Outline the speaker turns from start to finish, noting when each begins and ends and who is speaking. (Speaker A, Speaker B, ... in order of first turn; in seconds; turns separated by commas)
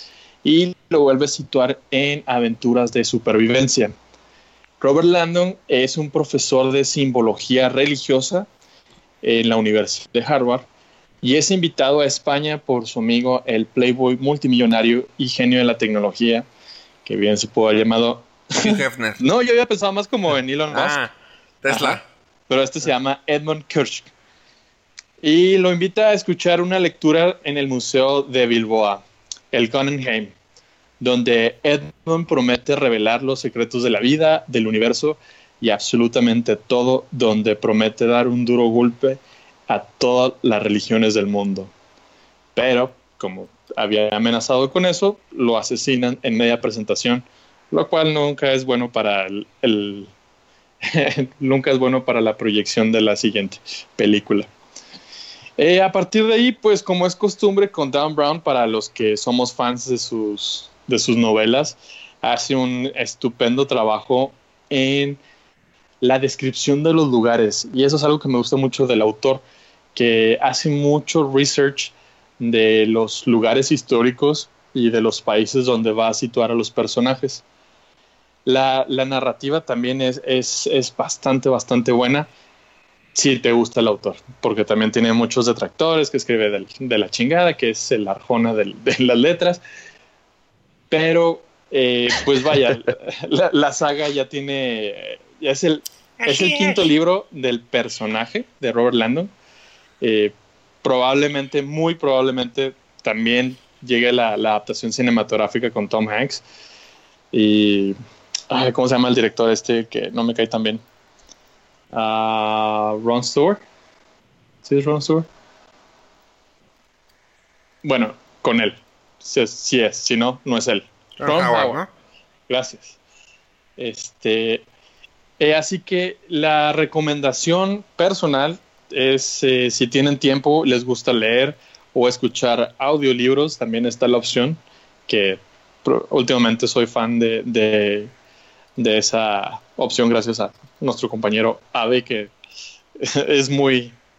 Speaker A: 0.4-3.9, Speaker A: 4.8-8.5, Speaker A: 9.2-10.7, Speaker A: 11.2-16.5, Speaker A: 17.0-21.0, Speaker B: 18.6-19.2, Speaker B: 20.7-22.0, Speaker A: 21.7-24.1, Speaker A: 25.2-30.4, Speaker A: 31.0-41.7, Speaker A: 42.5-50.1, Speaker A: 50.8-54.5, Speaker A: 55.6-65.2, Speaker A: 66.0-69.4, Speaker A: 69.9-77.4, Speaker A: 78.5-82.3, Speaker A: 83.1-89.6, Speaker A: 90.9-99.3, Speaker B: 96.2-96.9, Speaker A: 100.0-106.4, Speaker A: 107.3-108.0, Speaker A: 108.5-110.8, Speaker A: 111.9-113.6, Speaker A: 114.6-115.3, Speaker A: 117.8-121.8, Speaker B: 121.2-121.9, Speaker A: 122.5-123.0, Speaker A: 123.8-124.7, Speaker A: 125.4-138.1, Speaker A: 138.8-142.3, Speaker A: 143.0-144.0